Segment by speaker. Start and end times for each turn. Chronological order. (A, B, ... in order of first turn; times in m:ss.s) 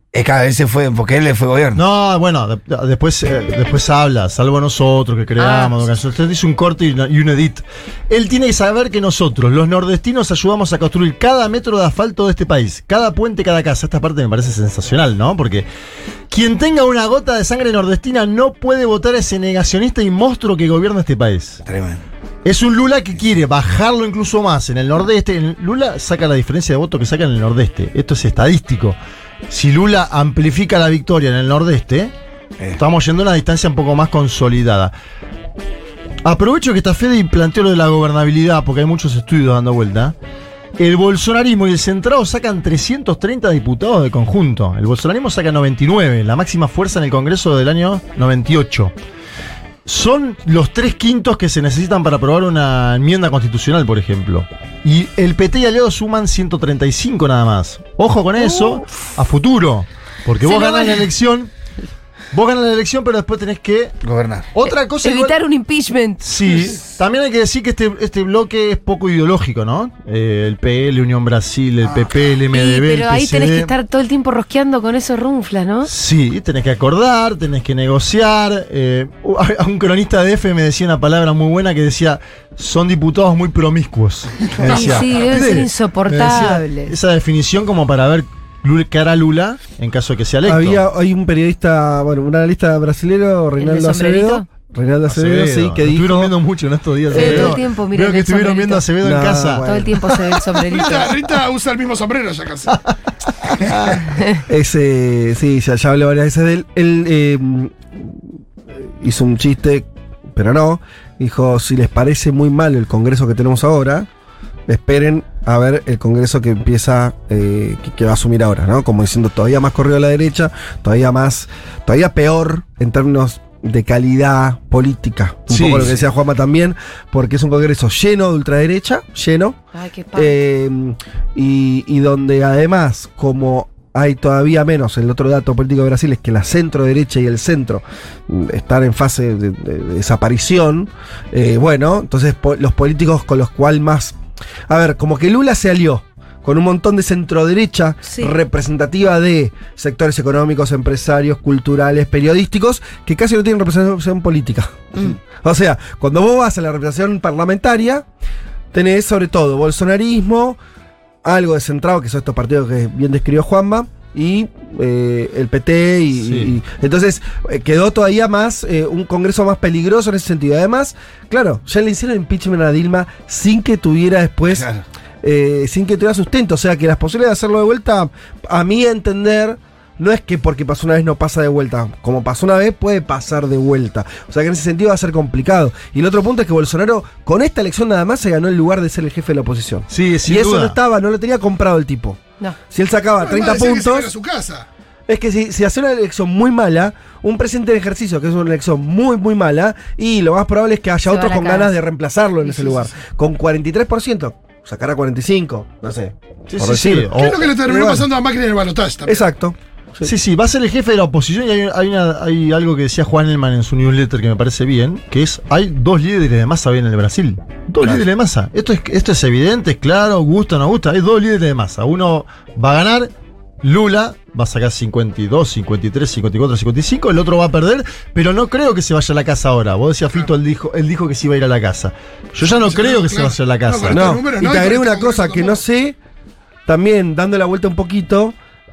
0:00.1-0:01.8 A
0:01.8-0:15.7 B
0:05.4-0:05.8 C
0:16.3-0:21.6 B
0:21.6-0:22.0 A
0:22.4-0:29.0 B
0:29.5-0:32.1 B
0:32.7-0:34.9 B
0:36.2-0:40.2 B
0:40.8-0:48.9 B
0:49.8-1:01.5 B
0:58.4-0:58.8 C
1:00.4-1:01.1 C
1:02.3-1:04.0 B
1:04.0-1:04.5 A
1:04.5-1:05.4 B
1:04.7-1:06.2 C
1:06.2-1:13.7 B
1:12.5-1:15.9 C
1:15.8-1:30.8 B
1:24.6-1:26.9 C
1:30.4-1:36.3 D
1:33.6-1:34.4 C
1:35.1-1:40.4 B
1:37.1-1:38.9 C
1:37.1-1:37.6 D
1:39.0-1:40.0 D
1:39.6-1:41.1 C
1:40.7-1:42.8 E
1:42.9-1:44.1 B
1:44.1-1:44.4 C
1:44.5-1:54.1 D
1:54.7-2:09.6 D
2:05.5-2:05.9 B
2:09.7-2:10.4 C
2:10.2-2:24.2 D
2:24.7-2:38.1 D
2:28.0-2:28.3 C
2:38.7-2:40.6 D
2:41.2-2:54.7 D
2:46.1-2:46.6 B
2:54.5-2:54.8 A
2:55.2-3:12.2 D
3:09.9-3:10.8 B
3:12.7-3:14.1 D
3:13.2-3:14.7 E
3:15.1-3:28.1 D
3:21.0-3:21.7 C
3:22.4-3:22.8 C
3:26.5-3:27.5 B
3:27.2-3:29.3 E
3:29.1-3:30.1 D
3:30.0-3:43.1 B
3:43.6-3:54.2 B
3:52.4-3:55.6 E
3:53.9-3:56.0 D
3:56.7-3:58.4 D